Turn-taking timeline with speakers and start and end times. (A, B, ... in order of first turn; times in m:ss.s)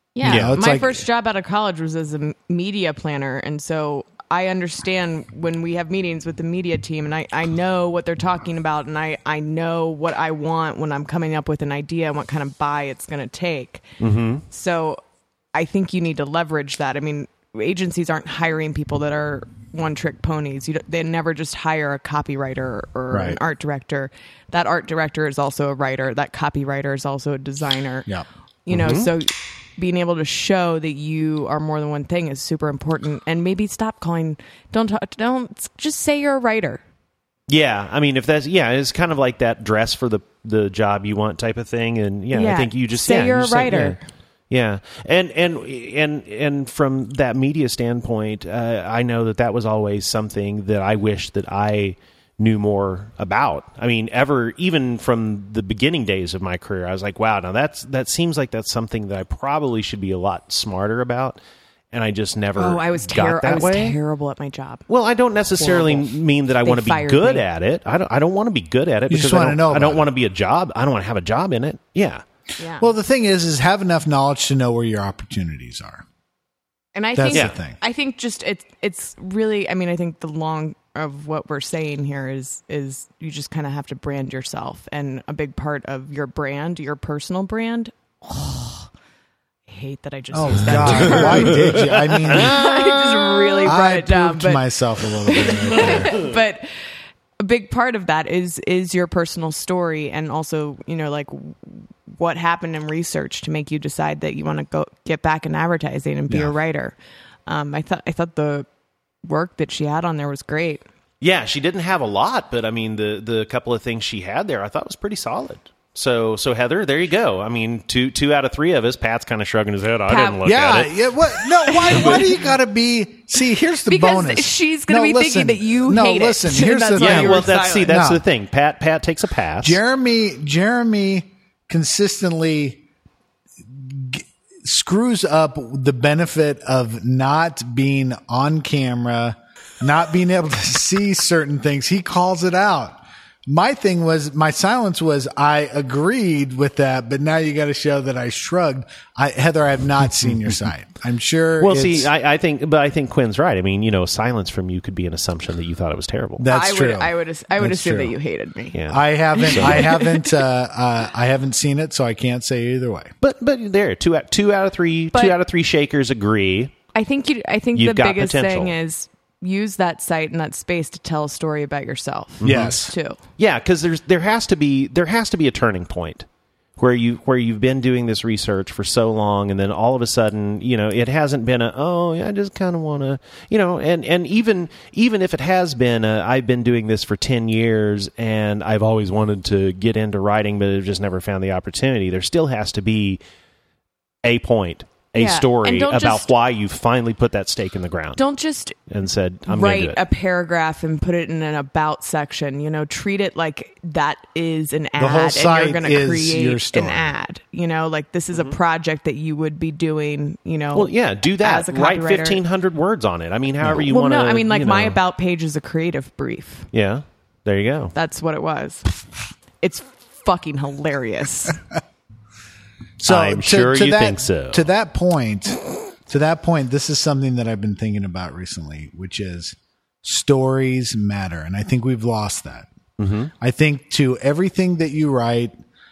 0:00.1-0:13.8 A
0:00.2-0:01.0 B
0:00.2-0:00.6 C
0:14.0-0:14.4 C
0:14.5-0:15.0 A
0:15.5-0:28.1 A
0:23.1-0:23.4 B
0:28.7-0:36.8 A
0:28.7-0:29.1 C
0:37.5-0:44.0 C
0:42.3-0:44.0 A
0:44.5-1:01.4 C
1:01.9-1:04.0 C
1:02.6-1:04.8 A
1:04.9-1:12.2 C
1:05.6-1:07.4 A
1:09.1-1:10.0 B
1:12.6-1:12.9 A
1:12.8-1:16.0 B
1:16.9-1:28.9 A
1:17.2-1:17.8 B
1:29.7-1:34.7 A
1:30.3-1:32.6 B
1:30.7-1:31.7 C
1:32.2-1:32.8 C
1:33.6-1:36.2 B
1:35.3-1:36.8 A
1:35.8-1:36.2 C
1:37.4-1:46.9 A
1:47.5-1:48.7 A
1:49.2-1:50.8 A
1:51.2-2:00.9 C
2:00.1-2:00.5 A
2:00.4-2:08.2 B
2:01.6-2:02.3 A
2:01.9-2:02.3 C
2:03.8-2:07.9 A
2:07.0-2:09.8 C
2:09.6-2:12.8 B
2:13.6-2:32.1 B
2:31.6-2:36.4 C
2:36.4-2:38.1 B
2:36.4-2:38.8 A
2:38.7-2:39.9 C
2:38.9-2:43.1 B
2:39.3-2:40.4 A
2:43.2-2:46.7 C
2:46.9-2:53.2 A
2:47.7-2:48.7 C
2:52.4-2:56.2 C
2:52.4-2:52.9 B
2:56.8-3:13.2 C
3:14.2-3:18.2 C
3:15.1-3:16.3 A
3:18.2-3:18.8 A
3:18.9-3:20.0 C
3:19.5-3:32.4 A
3:25.0-3:27.1 B
3:30.7-3:35.0 C
3:33.8-3:36.7 A
3:36.7-3:37.9 C
3:37.9-3:38.9 A
3:39.6-3:41.6 A
3:43.0-3:44.6 C
3:43.0-3:52.7 B
3:53.0-3:53.3 C
3:53.4-3:55.5 B